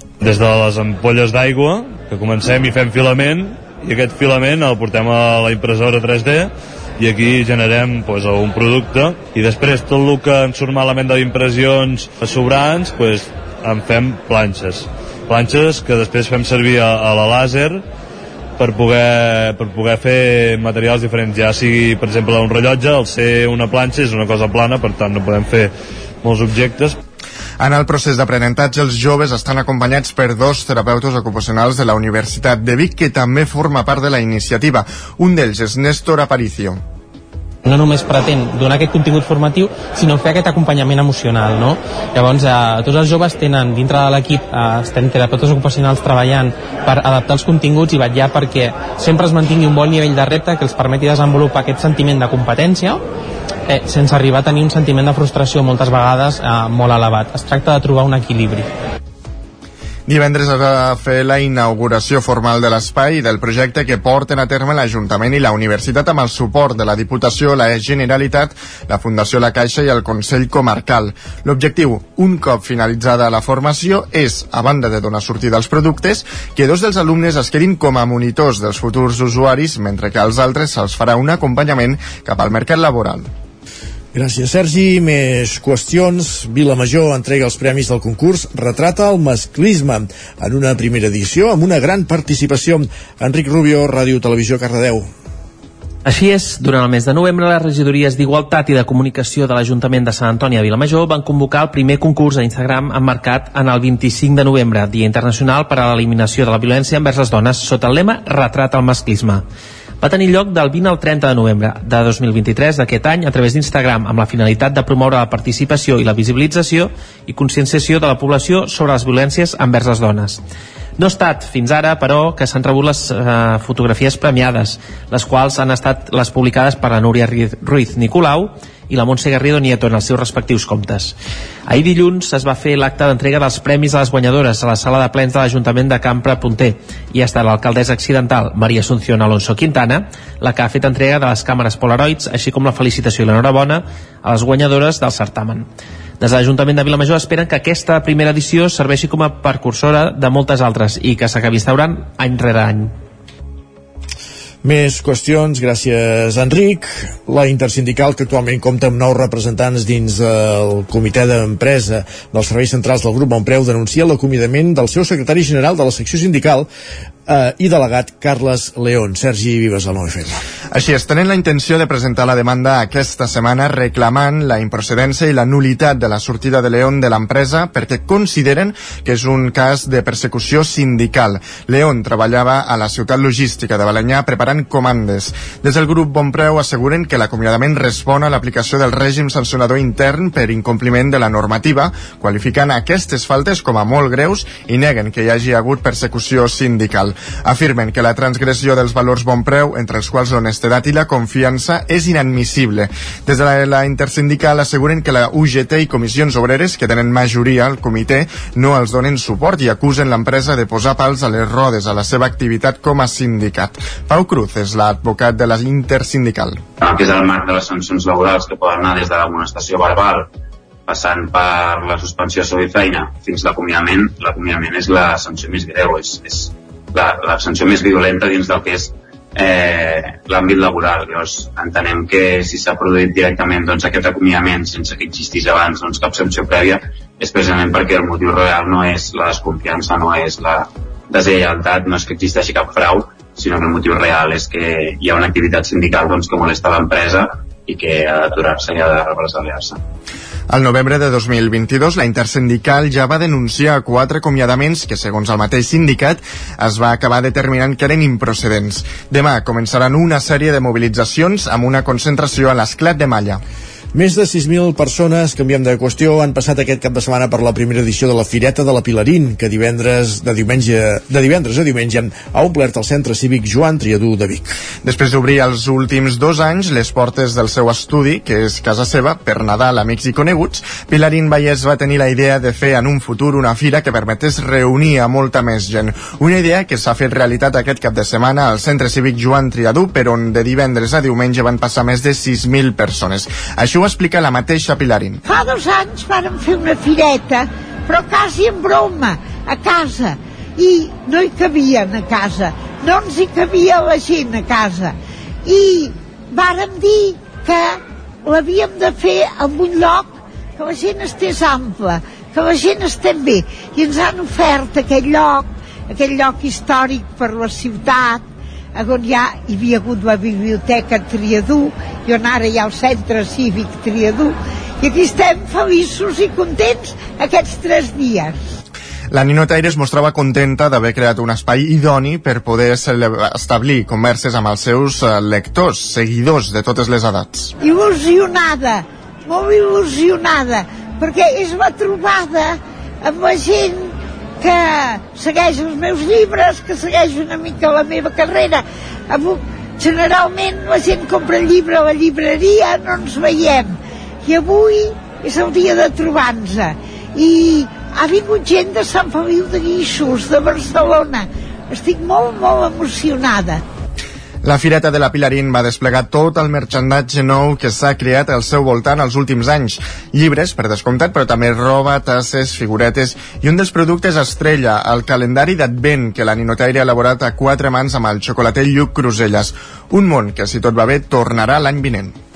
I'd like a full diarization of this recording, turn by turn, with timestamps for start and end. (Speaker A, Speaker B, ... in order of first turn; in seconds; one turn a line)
Speaker A: 0.2-17.8
Speaker A: 18.6-27.0
Speaker B: 27.6-36.8
Speaker C: 37.6-53.0
Speaker C: 53.7-58.7
Speaker B: 60.1-83.3
Speaker D: 84.1-95.1
Speaker E: 96.0-109.4
Speaker E: 110.0-120.4
Speaker E: 121.0-131.1
Speaker E: 131.7-145.7
Speaker E: 146.2-152.9
Speaker D: 154.6-166.7
Speaker D: 167.3-170.4
Speaker B: 170.7-216.6
Speaker F: 216.8-220.3
Speaker F: 220.9-249.8
Speaker B: 250.5-263.4
Speaker D: 263.9-274.5
Speaker B: 274.8-295.2
Speaker G: 295.2-328.4
Speaker B: 329.1-337.5
Speaker G: 337.6-363.6
Speaker B: 364.4-382.1